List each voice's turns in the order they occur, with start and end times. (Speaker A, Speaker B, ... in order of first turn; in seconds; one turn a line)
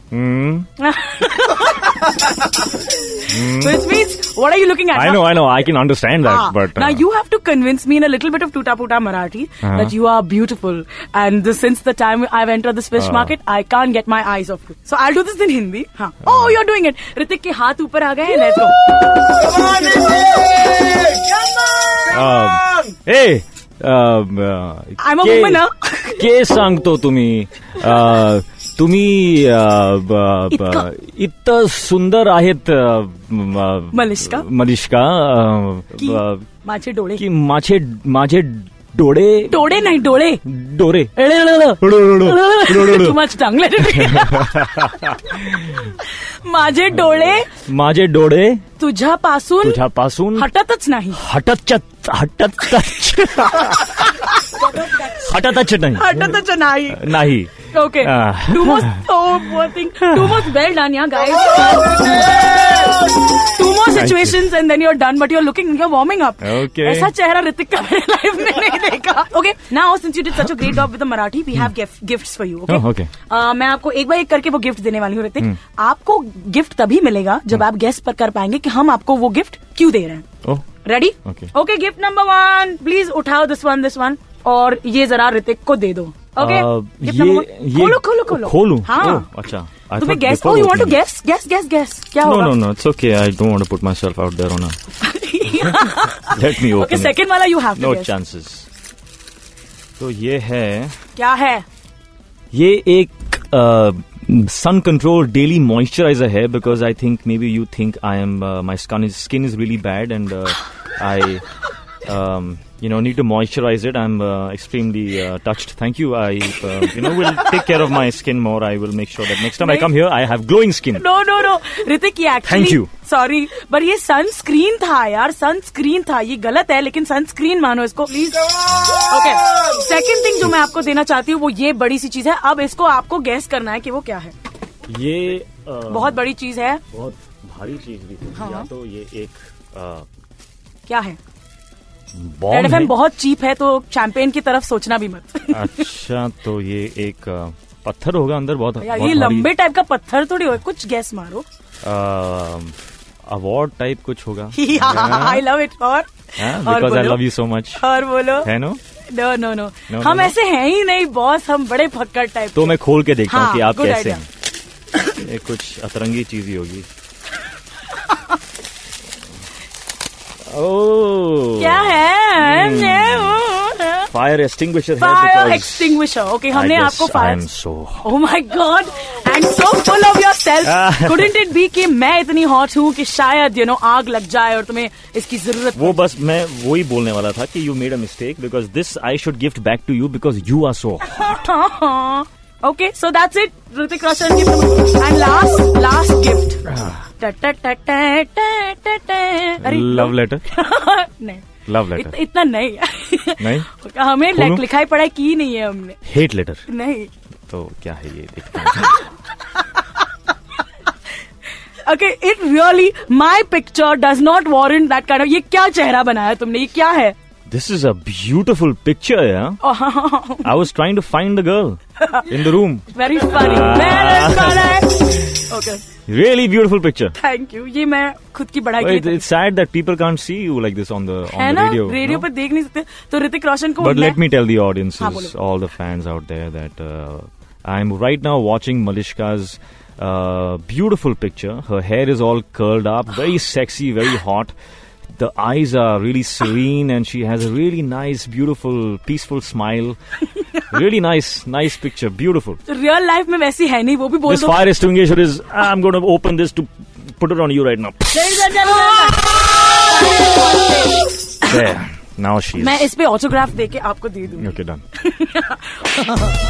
Speaker A: 0.1-0.7
Speaker B: 0.8-5.6
Speaker A: 3.2-3.8
Speaker A: 4.9-7.0
Speaker B: 6.2-22.2
Speaker A: 9.6-9.9
Speaker A: 12.9-13.3
Speaker A: 16.2-16.6
Speaker A: 22.1-36.5
Speaker B: 25.0-26.3
Speaker B: 30.5-30.9
Speaker B: 33.9-34.5
Speaker B: 36.0-37.2
Speaker A: 37.2-43.2
Speaker B: 39.5-40.4
Speaker B: 41.1-47.5
Speaker A: 43.8-45.9
Speaker A: 47.0-48.6
Speaker B: 48.8-51.2
Speaker A: 49.6-50.5
Speaker A: 51.1-54.1
Speaker B: 54.2-55.3
Speaker A: 55.0-59.0
Speaker B: 55.9-80.2
Speaker A: 62.1-62.4
Speaker A: 63.9-64.5
Speaker A: 66.4-67.1
Speaker A: 72.7-73.1
Speaker B: 80.8-89.3
Speaker A: 81.2-81.5
Speaker A: 86.4-91.0
Speaker B: 90.0-92.6
Speaker A: 92.2-94.8
Speaker B: 95.0-98.1
Speaker A: 95.5-97.2
Speaker A: 97.8-98.7
Speaker A: 100.0-101.0
Speaker B: 101.2-101.6
Speaker A: 102.5-111.4
Speaker A: 112.0-121.1
Speaker B: 116.8-117.7
Speaker B: 119.5-119.9
Speaker B: 120.9-134.3
Speaker A: 122.4-122.9
Speaker A: 134.9-136.2
Speaker B: 135.9-136.8
Speaker A: 136.9-140.1
Speaker B: 138.3-138.7
Speaker B: 140.9-141.2
Speaker A: 142.1-142.9
Speaker B: 142.5-145.8
Speaker A: 145.5-149.5
Speaker B: 148.8-151.4
Speaker A: 151.8-152.8
Speaker A: 153.3-155.5
Speaker B: 154.5-157.2
Speaker A: 156.4-158.8
Speaker B: 157.7-158.5
Speaker B: 159.1-164.2
Speaker A: 159.9-160.3
Speaker A: 162.5-164.3
Speaker A: 165.1-166.9
Speaker A: 170.5-173.5
Speaker B: 171.6-174.1
Speaker A: 174.1-178.1
Speaker B: 175.0-177.4
Speaker B: 178.0-186.0
Speaker A: 180.6-181.4
Speaker A: 185.7-191.5
Speaker B: 191.0-206.0
Speaker A: 196.7-197.0
Speaker A: 199.6-200.4
Speaker A: 201.7-202.1
Speaker A: 203.4-203.7
Speaker A: 204.3-204.6
Speaker A: 206.0-206.7
Speaker B: 206.7-207.1
Speaker A: 207.5-209.0
Speaker B: 209.5-209.9
Speaker B: 211.8-217.2
Speaker A: 217.5-219.6
Speaker B: 219.6-220.5
Speaker A: 220.4-225.3
Speaker B: 222.0-222.3
Speaker B: 222.9-225.8
Speaker A: 226.1-227.2
Speaker B: 227.2-229.2
Speaker A: 228.8-232.3
Speaker B: 231.3-234.2
Speaker A: 233.8-244.5
Speaker B: 235.0-235.3
Speaker A: 245.2-250.0
Speaker A: 250.6-252.6
Speaker B: 252.7-254.6
Speaker A: 254.2-258.8
Speaker B: 258.1-261.6
Speaker A: 261.4-262.9
Speaker B: 262.5-266.3
Speaker A: 264.3-264.8